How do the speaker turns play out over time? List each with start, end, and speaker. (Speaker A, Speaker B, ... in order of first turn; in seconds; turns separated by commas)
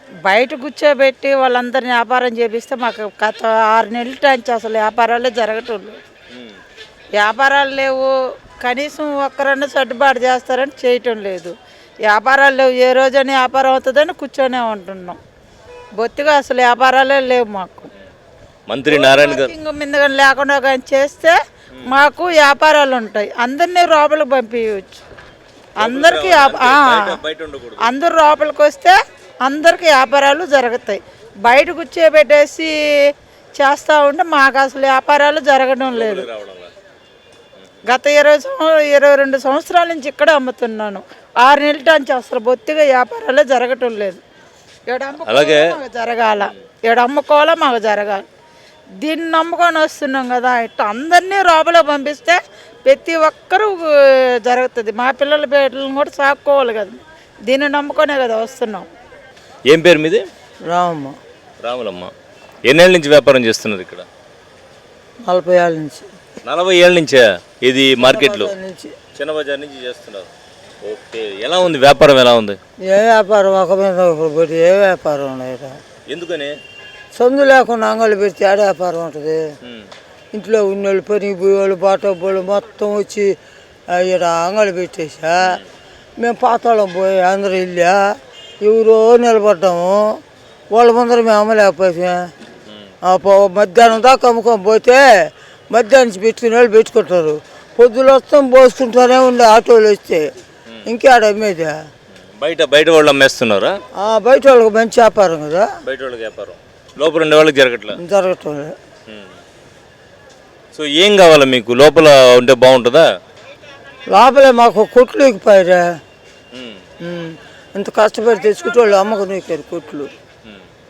Speaker A: 0.2-6.0, Speaker B: 6.3-6.6, Speaker A: 7.2-11.6, Speaker A: 12.1-15.2, Speaker A: 16.0-17.9, Speaker B: 18.7-19.5, Speaker A: 18.9-21.4, Speaker A: 21.9-25.0, Speaker A: 25.8-27.2, Speaker B: 25.8-27.9, Speaker A: 27.8-32.7, Speaker A: 33.6-36.3, Speaker B: 35.9-36.7, Speaker A: 37.9-44.2, Speaker A: 44.9-48.2, Speaker B: 45.2-45.7, Speaker A: 49.0-58.9, Speaker B: 59.7-60.2, Speaker C: 60.7-61.2, Speaker B: 61.6-62.1, Speaker B: 62.7-64.1, Speaker C: 65.3-66.1, Speaker B: 66.4-68.5, Speaker C: 68.0-69.0, Speaker B: 69.2-70.3, Speaker B: 70.8-72.6, Speaker C: 72.8-75.8, Speaker B: 76.1-76.6, Speaker C: 77.2-79.5, Speaker B: 79.6-79.9, Speaker C: 80.3-83.3, Speaker C: 83.9-85.6, Speaker C: 86.2-88.1, Speaker C: 88.6-90.2, Speaker C: 90.7-92.3, Speaker C: 93.0-100.3, Speaker C: 100.9-101.8, Speaker B: 102.4-103.8, Speaker C: 104.0-105.7, Speaker B: 105.9-108.0, Speaker C: 108.0-108.8, Speaker B: 110.7-113.1, Speaker C: 114.1-115.9, Speaker B: 116.5-116.8, Speaker C: 117.0-120.1